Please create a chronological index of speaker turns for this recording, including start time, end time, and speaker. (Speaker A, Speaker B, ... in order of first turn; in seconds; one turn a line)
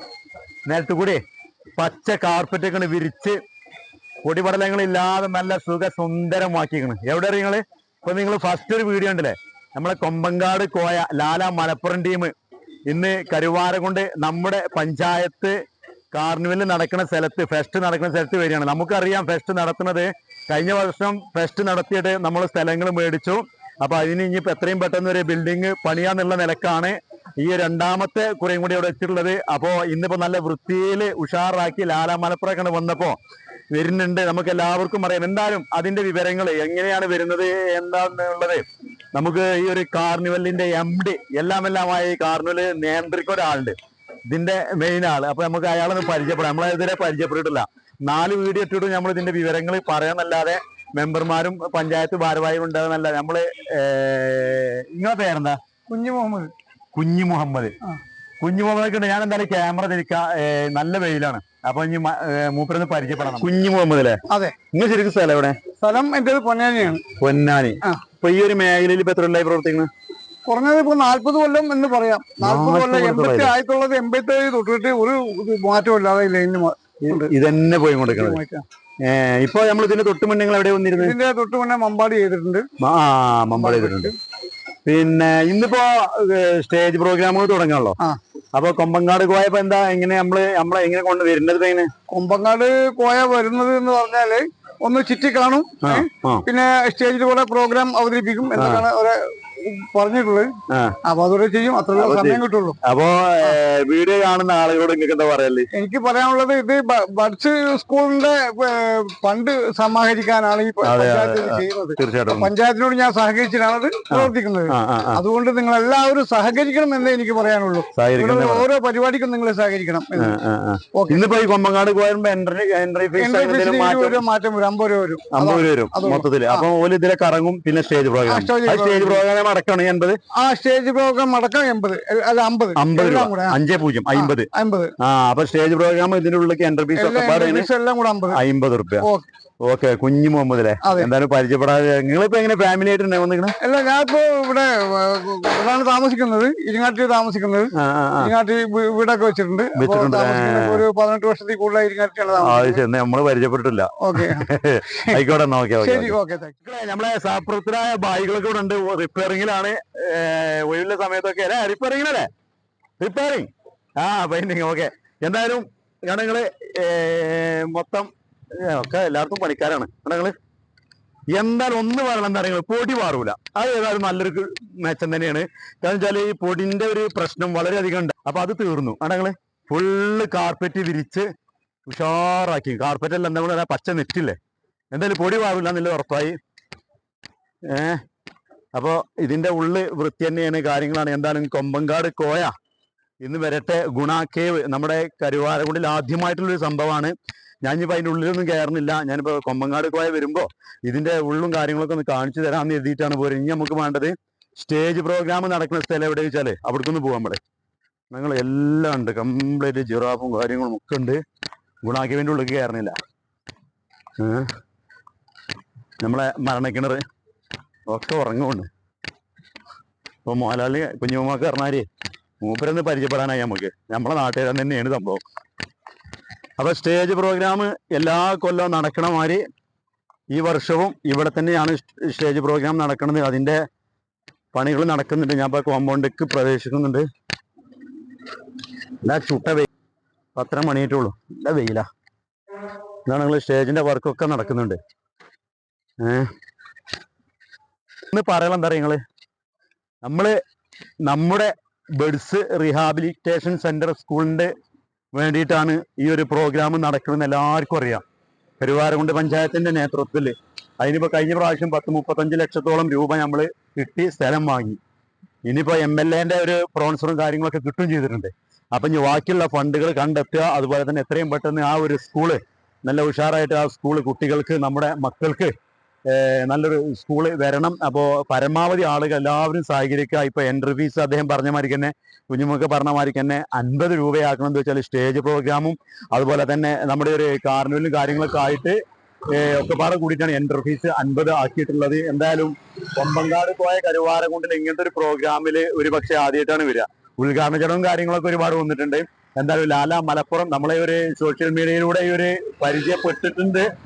Speaker A: 0.7-1.2
Speaker A: 1.8-3.4
Speaker A: 4.2-12.3
Speaker A: 12.9-15.5
Speaker A: 16.1-33.2
Speaker A: 33.7-43.8
Speaker A: 44.3-55.6
Speaker B: 55.9-56.5
Speaker A: 56.9-57.8
Speaker A: 58.4-64.2
Speaker B: 64.3-64.5
Speaker A: 64.7-65.5
Speaker B: 65.8-67.0
Speaker A: 67.1-69.9
Speaker B: 70.5-77.3
Speaker A: 72.4-73.5
Speaker A: 77.0-78.4
Speaker B: 78.1-78.6
Speaker A: 79.0-81.2
Speaker B: 81.0-82.7
Speaker A: 82.8-84.1
Speaker B: 83.5-84.1
Speaker A: 84.8-88.0
Speaker A: 88.5-91.9
Speaker B: 92.1-100.5
Speaker A: 95.8-96.4
Speaker A: 98.5-98.9
Speaker A: 100.7-101.0
Speaker B: 101.0-102.8
Speaker A: 102.0-105.7
Speaker B: 105.7-120.3
Speaker A: 110.8-112.5
Speaker A: 114.1-115.2
Speaker A: 117.9-118.7
Speaker A: 120.2-124.2
Speaker B: 120.9-121.3
Speaker B: 123.2-126.7
Speaker A: 125.3-130.2
Speaker B: 128.3-129.2
Speaker B: 130.3-133.6
Speaker A: 132.8-134.5
Speaker B: 134.1-134.9
Speaker A: 135.0-137.7
Speaker B: 136.9-138.4
Speaker A: 138.3-139.1
Speaker B: 139.0-139.3
Speaker A: 139.6-143.5
Speaker B: 140.8-141.1
Speaker B: 143.6-152.8
Speaker A: 147.7-148.3
Speaker A: 149.8-150.8
Speaker A: 152.4-162.3
Speaker B: 154.0-155.2
Speaker B: 155.8-156.6
Speaker A: 163.0-170.3
Speaker A: 171.3-181.3
Speaker A: 181.9-184.4
Speaker A: 184.9-186.3
Speaker A: 187.7-188.0
Speaker A: 188.7-192.5
Speaker A: 193.2-207.4
Speaker A: 208.1-211.2
Speaker A: 211.8-213.0
Speaker A: 214.2-214.5
Speaker A: 216.0-217.0
Speaker A: 217.9-218.7
Speaker A: 220.2-221.9
Speaker A: 222.4-225.2
Speaker A: 226.6-229.4
Speaker A: 230.3-233.6
Speaker A: 234.5-237.1
Speaker A: 239.0-239.7
Speaker A: 240.3-241.9
Speaker A: 243.1-244.8
Speaker A: 246.0-246.3
Speaker A: 248.1-249.0
Speaker A: 250.0-250.3
Speaker A: 251.0-254.5
Speaker A: 255.1-258.0
Speaker A: 258.6-264.8
Speaker A: 265.4-275.5
Speaker A: 276.1-288.8
Speaker A: 289.3-303.7